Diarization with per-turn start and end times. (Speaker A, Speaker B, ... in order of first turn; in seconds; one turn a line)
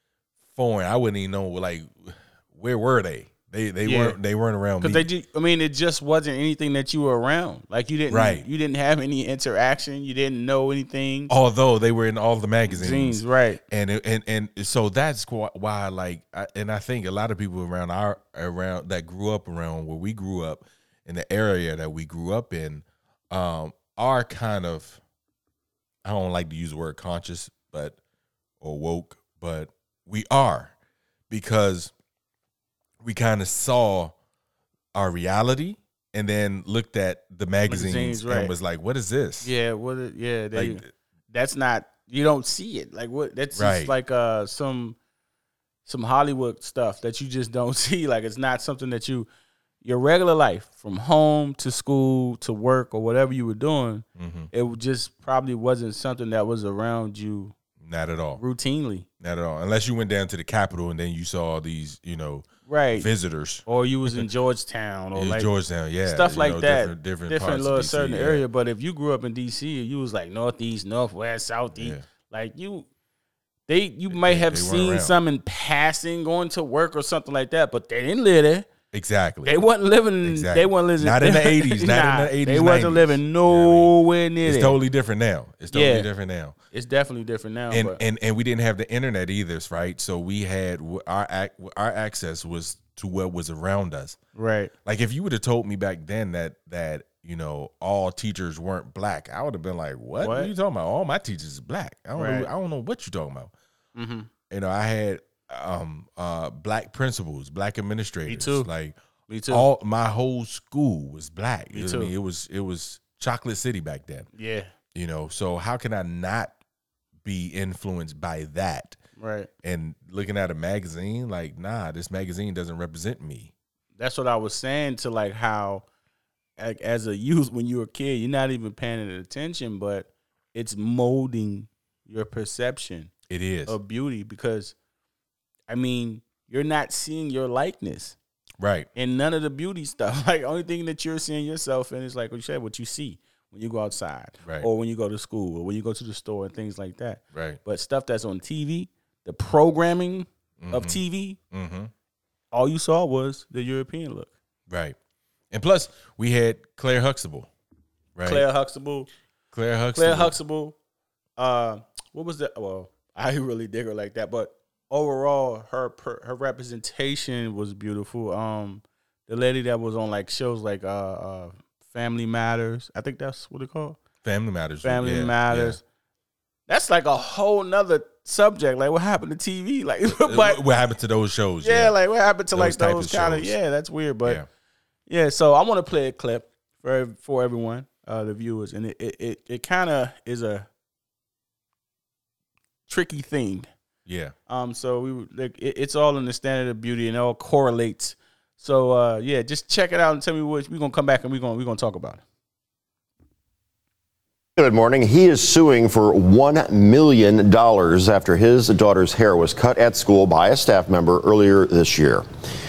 Speaker A: 0.6-5.1
Speaker B: 3.9-4.2
Speaker B: 4.8-11.3
Speaker A: 8.1-8.4
Speaker A: 11.3-25.0
Speaker B: 12.7-13.6
Speaker A: 26.1-28.0
Speaker A: 28.6-30.7
Speaker A: 31.3-31.9
Speaker A: 33.0-34.1
Speaker A: 34.9-39.5
Speaker B: 37.7-38.5
Speaker B: 39.4-45.0
Speaker A: 40.5-40.9
Speaker A: 43.5-43.9
Speaker B: 45.9-49.3
Speaker B: 49.8-57.5
Speaker A: 54.2-54.5
Speaker A: 57.8-58.4
Speaker B: 58.4-59.1
Speaker A: 59.2-64.3
Speaker B: 62.7-63.1
Speaker B: 63.6-65.5
Speaker A: 65.1-68.4
Speaker B: 66.0-72.9
Speaker A: 71.8-72.0
Speaker B: 73.7-78.7
Speaker A: 74.1-75.2
Speaker A: 78.9-79.5
Speaker B: 79.4-84.8
Speaker A: 80.2-83.9
Speaker A: 84.4-86.5
Speaker B: 85.7-86.1
Speaker B: 86.7-88.0
Speaker A: 87.7-94.2
Speaker B: 94.3-94.7
Speaker A: 94.8-103.5
Speaker B: 100.2-100.5
Speaker B: 102.1-102.5
Speaker B: 103.9-104.3
Speaker A: 104.5-109.0
Speaker B: 108.3-108.7
Speaker B: 109.3-109.7
Speaker A: 109.5-114.3
Speaker B: 111.7-112.1
Speaker B: 114.3-114.7
Speaker A: 114.9-116.5
Speaker A: 117.2-119.0
Speaker B: 119.2-119.5
Speaker A: 119.6-123.5
Speaker B: 124.0-125.8
Speaker B: 126.6-133.1
Speaker A: 133.3-133.8
Speaker B: 133.7-134.8
Speaker B: 135.7-138.2
Speaker A: 138.6-138.9
Speaker B: 138.9-151.4
Speaker A: 147.3-147.6
Speaker A: 150.6-151.0
Speaker A: 151.5-151.9
Speaker B: 152.5-154.3
Speaker A: 154.7-155.0
Speaker A: 155.5-157.5
Speaker A: 158.1-158.4
Speaker B: 158.2-159.1
Speaker A: 159.5-160.3
Speaker B: 159.9-160.8
Speaker B: 161.4-174.0
Speaker A: 174.2-175.8
Speaker B: 174.8-175.8
Speaker B: 176.7-180.6
Speaker A: 180.2-181.9
Speaker B: 181.6-184.4
Speaker A: 182.5-183.6
Speaker B: 185.1-190.7
Speaker B: 192.9-193.7
Speaker A: 194.1-194.3
Speaker B: 194.5-202.2
Speaker C: 204.6-212.2